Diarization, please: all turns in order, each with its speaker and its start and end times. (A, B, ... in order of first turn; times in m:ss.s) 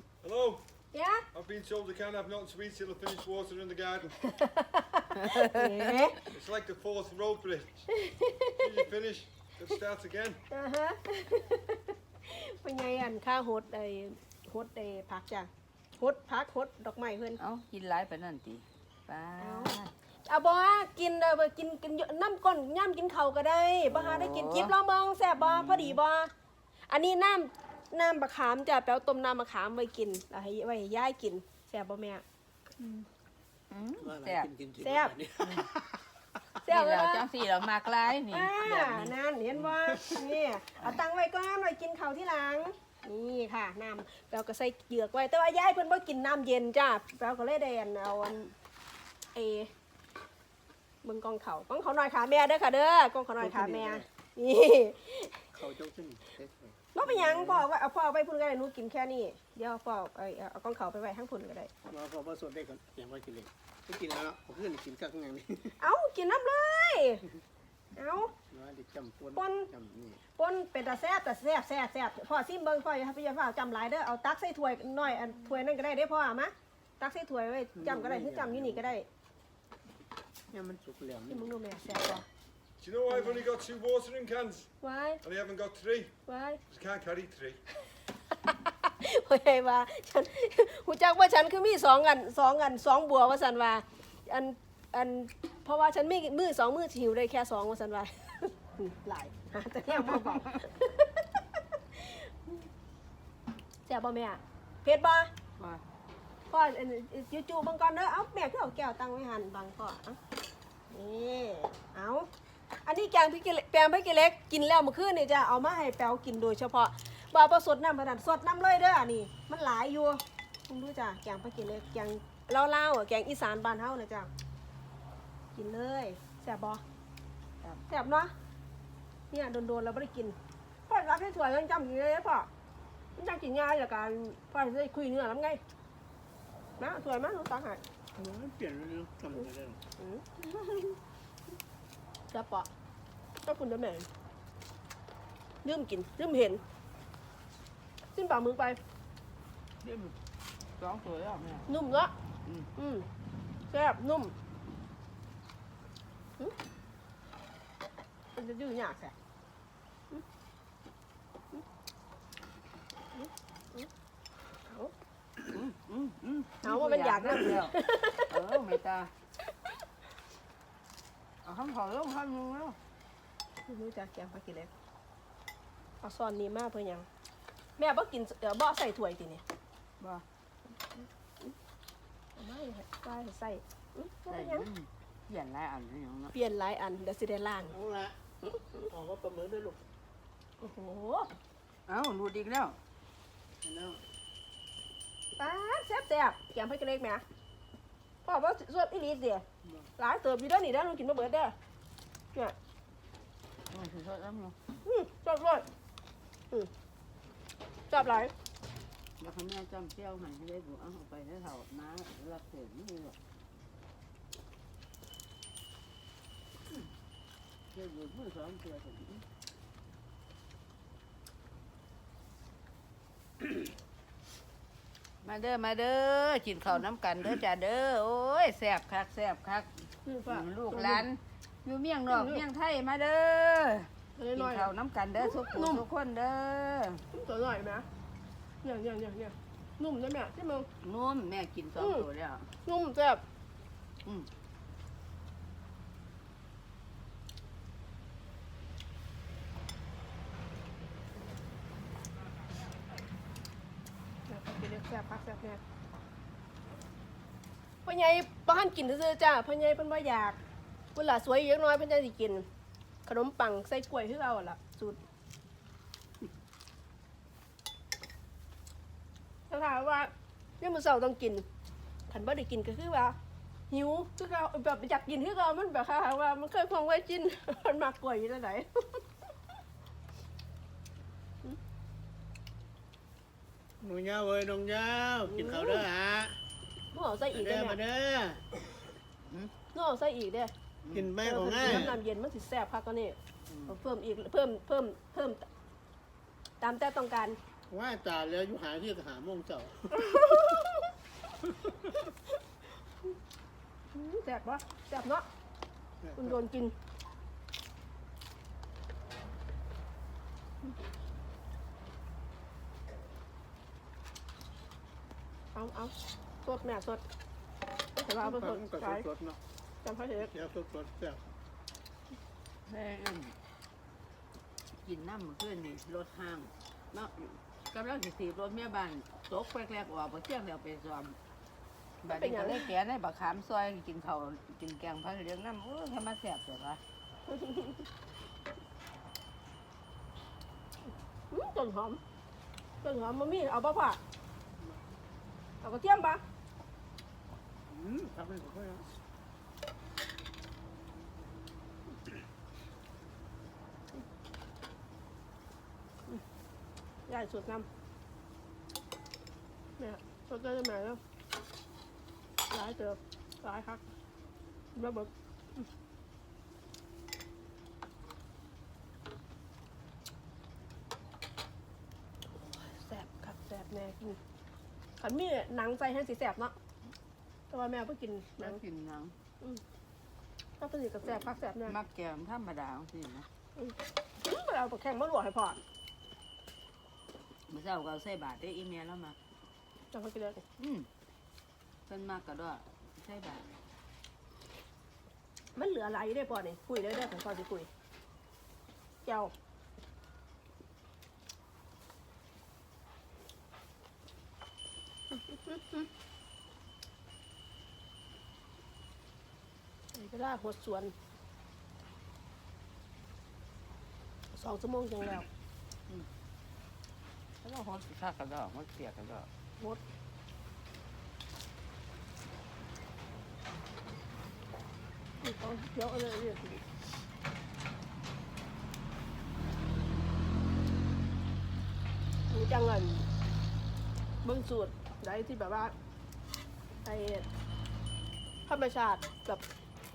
0:00.2-0:00.6 A
0:00.9-0:01.2 B
0:01.3-0:04.2 A
0:04.3-0:06.2 B
0:05.2-0:05.8 C
0:06.3-0:07.9 A
0:07.9-0:08.6 B
0:08.6-0:10.4 A
0:10.5-0:17.4 B
0:17.4-0:19.9 C
0:19.4-0:26.3 B
0:23.9-0:24.7 C
0:25.6-0:25.9 C
0:26.9-0:32.2 B
0:33.7-0:34.5 C
0:34.0-0:36.2 D
0:34.8-0:35.2 B
0:35.4-0:35.7 C
0:36.6-0:37.2 B
0:36.7-0:39.1 C
0:38.3-0:48.5 B
0:49.3-0:49.7 B
0:51.0-0:55.5 B
0:53.4-0:54.1 D
0:55.5-0:57.6 D
0:56.9-1:01.7 B
1:01.9-1:05.8 D
1:05.8-1:07.2 B
1:07.9-1:08.3 B
1:08.5-1:10.2 D
1:09.3-1:09.7 B
1:10.4-1:19.1 B
1:17.7-1:18.9 D
1:20.5-1:21.5 D
1:21.3-1:22.2 B
1:22.8-1:24.7 A
1:23.1-1:23.4 B
1:24.8-1:25.2 B
1:25.2-1:26.1 A
1:26.2-1:26.6 B
1:26.7-1:27.6 A
1:28.3-1:42.7 B
1:43.8-1:45.3 B
1:45.6-1:45.8 C
1:46.5-1:50.2 B
1:50.9-1:52.3 B
1:52.8-2:04.3 B
2:05.5-2:06.8 B
2:07.9-2:08.3 B
2:09.3-2:10.4 B
2:10.9-2:12.5 B
2:13.2-2:15.6 B
2:16.8-2:17.8 B
2:18.1-2:19.8 D
2:20.0-2:21.0 B
2:22.3-2:22.7 B
2:23.4-2:24.1 B
2:25.6-2:26.6 B
2:28.1-2:28.8 B
2:29.8-2:30.1 C
2:30.8-2:31.7 C
2:31.7-2:32.1 B
2:32.8-2:33.1 B
2:33.7-2:34.3 B
2:38.3-2:39.1 B
2:43.1-2:43.9 B
2:44.6-2:44.9 B
2:45.5-2:49.1 C
2:46.6-2:48.5 B
2:51.4-2:52.8 C
2:53.6-2:54.7 B
2:56.0-2:57.1 B
2:57.8-2:59.4 B
3:01.0-3:01.5 B
3:02.4-3:04.6 B
3:04.3-3:06.3 C
3:06.3-3:07.8 B
3:07.7-3:08.2 D
3:08.8-3:09.8 D
3:10.6-3:11.3 B
3:11.9-3:12.8 C
3:13.6-3:14.0 D
3:15.4-3:17.2 B
3:18.2-3:19.4 B
3:20.0-3:21.5 B
3:23.7-3:24.6 C
3:24.8-3:25.6 B
3:27.9-3:28.3 B
3:29.2-3:33.2 C
3:37.7-3:39.2 C
3:45.2-3:57.0 C
3:50.0-3:51.0 B
3:52.1-3:52.4 B
3:54.2-3:55.8 B
3:57.1-3:57.8 B
3:58.6-4:00.7 B
4:00.8-4:02.5 C
4:01.8-4:02.1 B
4:02.6-4:03.2 B
4:14.3-4:15.6 B
4:17.8-4:20.4 B
4:20.9-4:22.4 B
4:23.0-4:25.0 B
4:29.5-4:31.4 B
4:32.1-4:33.2 B
4:33.7-4:39.0 B
4:43.8-4:46.4 D
4:45.3-4:45.8 B
4:46.9-4:47.8 B
4:47.3-4:48.4 D
4:49.3-4:49.5 C
4:49.7-4:50.5 B
4:50.8-4:51.1 C
4:50.9-4:52.0 D
4:51.2-4:53.2 B
4:53.5-4:53.7 C
4:53.7-4:55.4 B
4:56.6-4:57.4 B
4:57.7-5:00.0 D
4:59.9-5:00.9 B
5:03.9-5:05.3 B
5:06.0-5:06.3 D
5:06.2-5:06.7 B
5:15.5-5:15.9 B
5:16.4-5:17.0 B
5:18.0-5:19.0 B
5:18.2-5:19.4 D
5:19.8-5:20.3 B
5:20.3-5:21.2 D
5:22.6-5:23.3 C
5:24.8-5:31.2 C
5:32.0-5:36.8 C
5:32.1-5:32.7 B
5:37.3-5:37.8 B
5:41.3-5:42.0 B
5:42.8-5:44.0 B
5:45.6-5:46.2 B
5:47.7-5:48.9 D
5:57.1-5:57.7 B
5:59.8-6:01.0 B
6:02.5-6:03.8 B
6:04.7-6:05.1 B
6:12.3-6:14.2 B
6:15.0-6:16.5 B
6:17.5-6:18.6 B
6:18.4-6:19.1 C
6:20.6-6:21.8 B
6:21.6-6:23.3 C
6:23.6-6:25.6 B
6:27.5-6:29.2 C
6:29.9-6:30.4 B
6:30.6-6:30.9 C
6:31.9-6:33.4 C
6:35.5-6:37.7 B
6:39.0-6:39.3 B
6:49.9-6:50.9 B
6:54.3-6:55.2 B
6:57.4-6:59.3 C
7:05.2-7:06.6 B
7:12.3-7:13.0 B
7:14.2-7:15.7 B
7:16.8-7:17.2 B
7:18.5-7:19.4 B